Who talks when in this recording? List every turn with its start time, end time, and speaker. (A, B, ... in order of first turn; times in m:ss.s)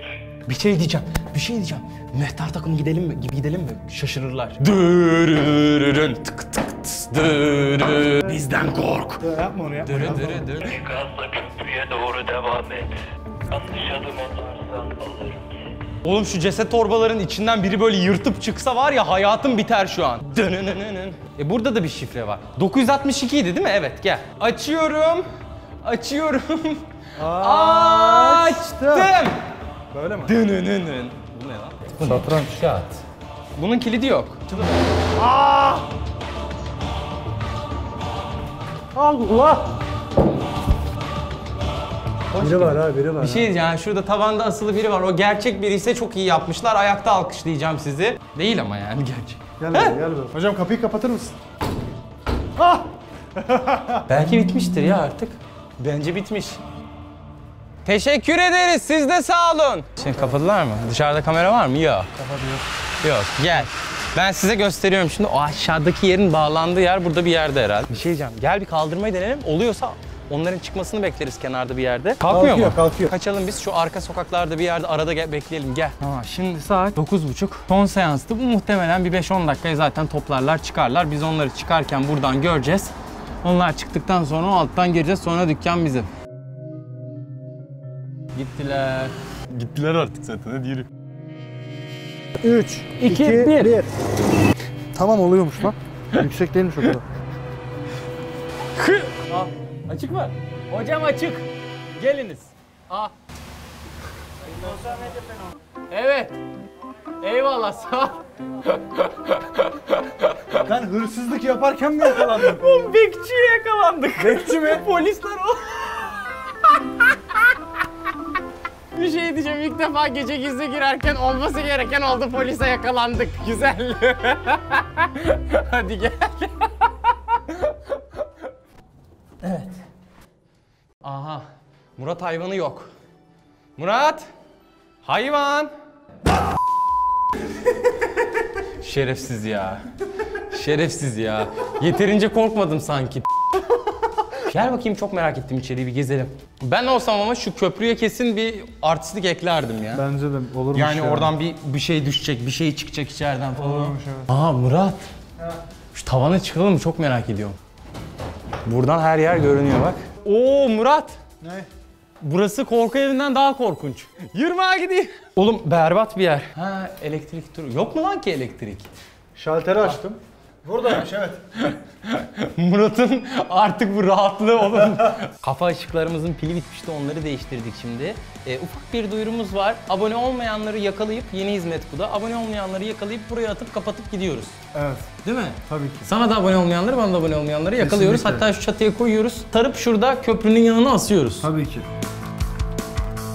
0:00.5-0:09.3 A
0:09.2-0:10.6 B
0:09.8-0:10.9 A
0:10.6-0:15.6 C
0:16.0-0:25.3 A
0:25.8-0:29.4 A
0:27.2-0:29.1 B
0:29.9-0:30.4 B
0:30.2-0:33.0 A
0:32.0-0:32.6 B
0:33.6-0:34.6 A
0:34.6-0:35.9 B
0:39.0-0:39.7 B
0:42.3-0:50.0 A
0:42.4-0:43.5 B
0:49.6-0:51.4 B
0:52.6-0:54.1 B
0:54.1-0:56.6 A
0:57.8-1:02.1 A
1:02.2-1:02.6 B
1:03.0-1:22.9 A
1:12.2-1:13.1 B
1:23.4-1:26.1 A
1:28.4-1:30.9 A
1:32.4-1:33.9 B
1:33.0-1:33.8 A
1:34.9-1:37.0 B
1:38.8-1:43.1 A
1:45.9-1:46.4 A
1:47.2-1:50.6 A
1:50.6-1:52.6 B
1:52.1-1:57.5 A
1:54.2-1:54.9 B
1:59.0-2:08.2 A
2:09.4-2:09.8 A
2:11.0-2:11.4 A
2:12.0-2:12.9 A
2:13.8-2:14.2 A
2:15.0-2:15.7 A
2:18.8-2:19.8 A
2:20.5-2:23.3 A
2:24.4-2:30.0 A
2:29.9-2:31.3 B
2:30.7-2:35.1 A
2:33.6-2:34.3 B
2:35.9-2:37.6 A
2:38.6-2:41.2 A
2:41.4-2:41.7 B
2:42.2-2:48.9 A
2:49.4-2:51.4 B
2:51.6-3:04.6 A
3:04.7-3:05.1 B
3:05.2-3:11.5 A
3:05.7-3:06.1 B
3:07.8-3:08.5 B
3:11.4-3:11.9 B